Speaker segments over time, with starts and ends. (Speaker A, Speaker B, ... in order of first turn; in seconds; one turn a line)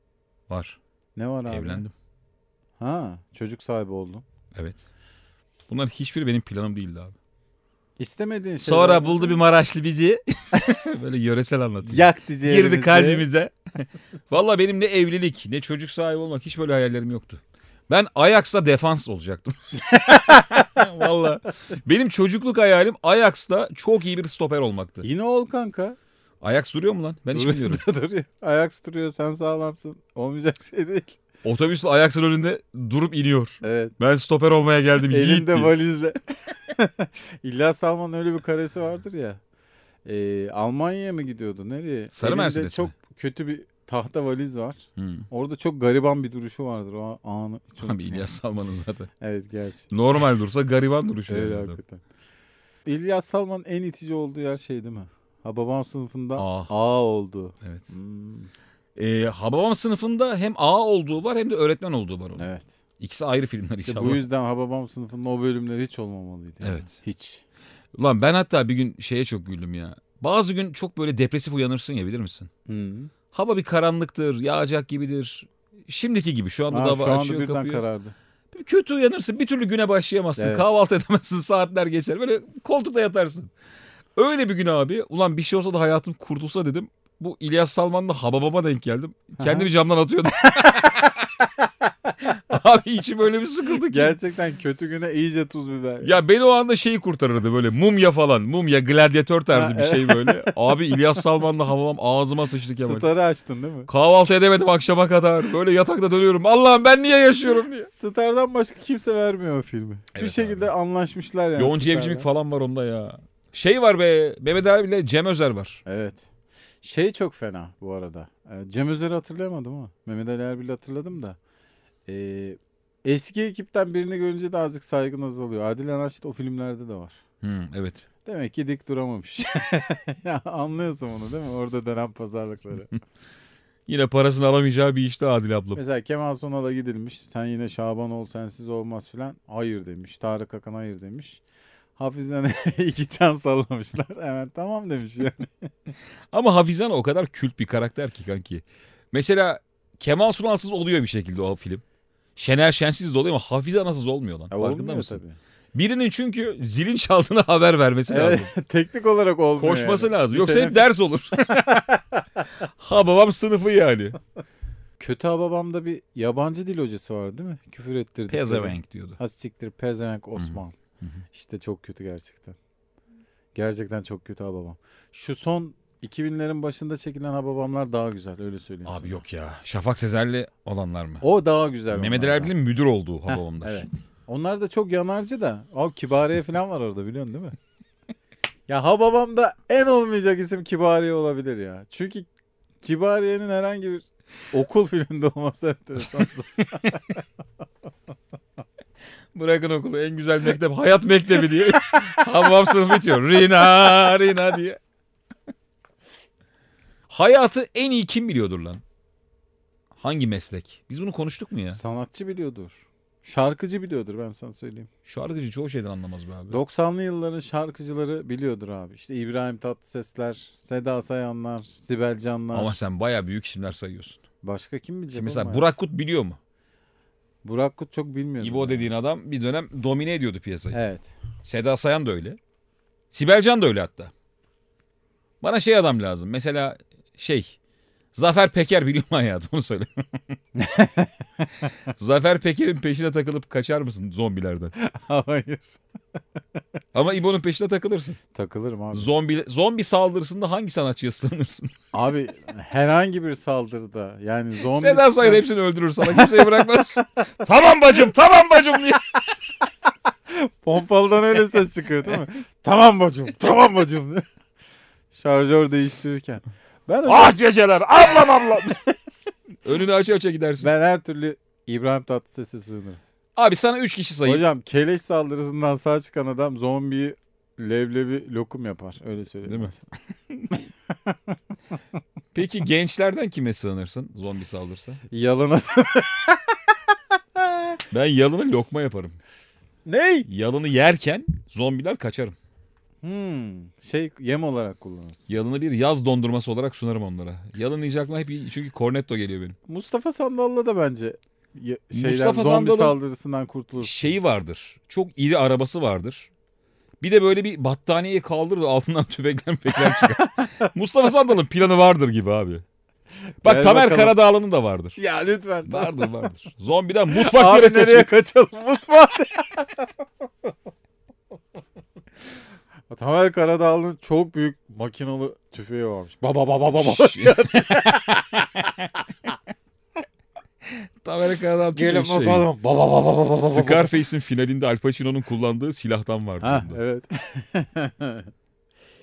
Speaker A: 0.5-0.8
Speaker B: 1.2-1.8
Speaker A: 1.5-1.9
Speaker B: 2.8-4.2
Speaker A: 4.5-4.8
Speaker A: 5.7-7.1
Speaker B: 8.0-9.4
Speaker A: 8.6-13.5
Speaker B: 11.8-13.2
Speaker A: 14.3-25.1
Speaker B: 19.8-20.8
Speaker B: 25.0-26.0
Speaker A: 26.4-27.8
Speaker B: 27.3-31.2
Speaker A: 31.4-35.7
Speaker B: 33.6-33.9
Speaker B: 35.0-39.4
Speaker B: 40.0-48.3
Speaker A: 42.1-42.9
Speaker A: 45.0-45.3
Speaker A: 47.8-49.1
Speaker B: 49.2-49.9
Speaker A: 49.9-51.8
Speaker B: 51.3-52.0
Speaker B: 52.9-58.5
Speaker A: 56.4-56.7
Speaker A: 57.6-57.9
Speaker A: 59.0-62.5
Speaker B: 62.4-62.8
Speaker A: 63.0-64.2
Speaker B: 63.8-67.4
Speaker A: 66.6-66.9
Speaker A: 68.0-72.5
Speaker B: 72.7-73.1
Speaker A: 73.3-77.8
Speaker B: 76.7-78.2
Speaker A: 78.5-83.5
Speaker B: 80.4-80.7
Speaker A: 84.2-91.2
Speaker B: 89.4-89.7
Speaker A: 92.2-94.2
Speaker B: 93.8-96.2
Speaker A: 96.0-103.1
Speaker B: 99.5-101.0
Speaker B: 102.8-103.9
Speaker A: 103.9-107.9
Speaker B: 107.8-112.3
Speaker A: 110.1-110.7
Speaker A: 111.6-115.8
Speaker B: 115.8-116.2
Speaker B: 116.8-121.4
Speaker B: 122.1-127.2
Speaker A: 127.4-128.0
Speaker B: 128.2-132.9
Speaker A: 133.9-135.8
Speaker B: 135.7-141.4
Speaker B: 141.9-145.7
Speaker A: 146.3-151.8
Speaker A: 152.3-155.2
Speaker B: 154.5-155.4
Speaker A: 155.7-158.5
Speaker B: 158.1-162.2
Speaker A: 159.6-161.8
Speaker A: 162.6-164.2
Speaker B: 165.0-170.8
Speaker A: 168.3-169.2
Speaker A: 170.3-171.2
Speaker B: 171.3-172.6
Speaker B: 173.5-179.2
Speaker A: 178.8-181.2
Speaker B: 181.2-182.5
Speaker A: 181.9-183.9
Speaker B: 183.3-187.5
Speaker B: 188.7-192.3
Speaker B: 192.8-197.2
Speaker A: 199.3-204.8
Speaker B: 201.4-202.9
Speaker B: 203.8-204.1
Speaker A: 207.1-208.8
Speaker A: 209.9-211.8
Speaker B: 211.7-214.9
Speaker A: 215.1-216.6
Speaker B: 216.5-222.8
Speaker A: 222.5-224.2
Speaker B: 224.4-225.7
Speaker A: 225.1-226.4
Speaker B: 227.4-228.9
Speaker A: 228.4-230.8
Speaker B: 230.7-231.1
Speaker A: 231.4-232.4
Speaker A: 233.1-234.1
Speaker A: 235.4-237.6
Speaker A: 238.1-240.2
Speaker B: 240.5-241.4
Speaker A: 242.0-244.7
Speaker B: 244.8-245.8
Speaker A: 246.9-248.2
Speaker B: 248.3-249.1
Speaker A: 248.9-251.7
Speaker B: 251.9-255.4
Speaker A: 254.6-259.2
Speaker B: 256.1-256.8
Speaker B: 260.3-264.2
Speaker B: 265.1-267.4
Speaker A: 267.1-268.8
Speaker A: 269.6-270.7
Speaker B: 270.6-273.0
Speaker A: 273.4-274.4
Speaker B: 274.2-279.9
Speaker A: 279.5-279.7
Speaker A: 280.3-280.6
Speaker A: 282.3-285.0
Speaker B: 285.1-286.6
Speaker B: 287.4-287.8
Speaker A: 287.9-289.2
Speaker B: 289.9-290.3
Speaker A: 290.3-292.4
Speaker B: 293.0-295.3
Speaker A: 295.3-299.6
Speaker B: 299.7-304.2
Speaker A: 301.9-303.0
Speaker A: 303.8-306.3
Speaker A: 307.0-312.6
Speaker B: 309.8-310.7
Speaker B: 313.4-314.2
Speaker A: 313.4-315.0
Speaker B: 315.0-316.1
Speaker A: 315.7-318.1
Speaker B: 317.1-319.9
Speaker B: 322.9-328.6
Speaker A: 326.7-328.9
Speaker A: 330.7-332.5
Speaker B: 331.8-333.9
Speaker A: 333.2-336.8
Speaker B: 336.4-338.3